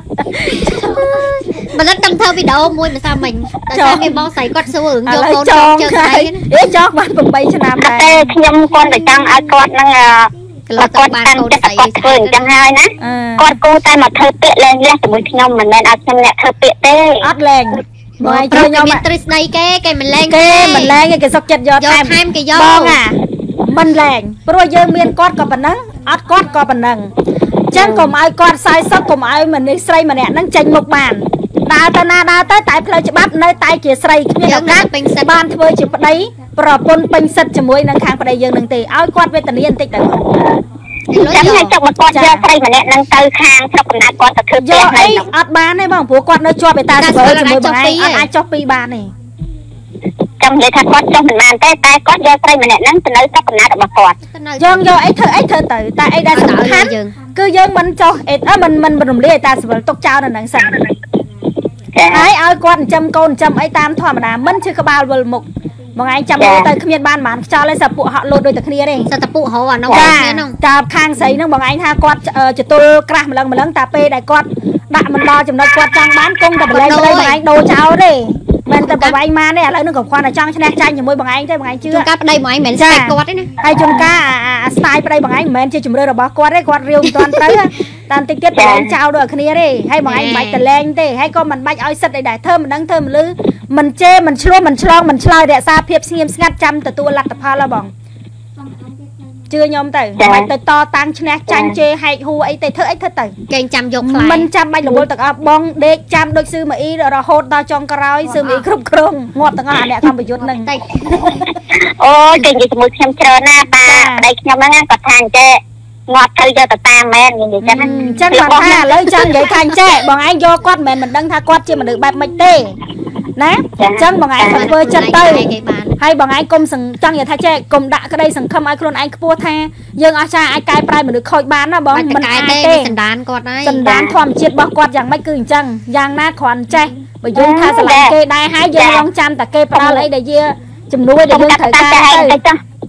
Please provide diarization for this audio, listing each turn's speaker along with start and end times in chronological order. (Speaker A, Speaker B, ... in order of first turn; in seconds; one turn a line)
Speaker A: 0.3-0.7
Speaker B: 0.5-6.4
Speaker A: 3.7-4.2
Speaker A: 5.0-8.3
Speaker C: 7.8-17.3
Speaker B: 10.7-12.6
Speaker A: 13.0-13.5
Speaker A: 17.2-19.0
Speaker B: 18.2-20.9
Speaker A: 20.3-27.1
Speaker B: 21.8-23.0
Speaker A: 27.7-40.3
Speaker C: 27.8-28.1
Speaker B: 34.4-35.4
Speaker B: 41.1-41.7
Speaker C: 41.1-45.2
Speaker A: 42.1-42.4
Speaker A: 44.6-49.1
Speaker B: 47.0-48.3
Speaker C: 50.4-54.2
Speaker B: 54.3-54.9
Speaker A: 54.6-60.8
Speaker B: 56.3-57.1
Speaker C: 61.9-62.3
Speaker A: 62.1-69.1
Speaker C: 66.4-66.7
Speaker B: 69.1-70.6
Speaker C: 69.9-70.2
Speaker A: 69.9-82.1
Speaker B: 76.7-77.4
Speaker B: 78.8-79.2
Speaker B: 81.9-83.5
Speaker A: 82.7-97.9
Speaker B: 87.1-87.5
Speaker C: 88.5-88.9
Speaker B: 90.0-90.6
Speaker A: 99.5-103.3
Speaker C: 100.2-100.5
Speaker C: 101.5-101.7
Speaker B: 103.5-104.5
Speaker A: 104.0-110.7
Speaker B: 108.3-108.6
Speaker B: 110.4-111.4
Speaker C: 111.7-119.3
Speaker A: 113.8-114.2
Speaker A: 117.6-122.8
Speaker B: 117.8-118.3
Speaker A: 123.4-132.9
Speaker C: 123.8-124.7
Speaker B: 124.4-126.0
Speaker B: 131.9-133.9
Speaker A: 133.6-142.4
Speaker C: 133.8-134.2
Speaker C: 137.3-138.1
Speaker C: 138.8-139.0
Speaker C: 139.7-140.1
Speaker C: 141.3-142.6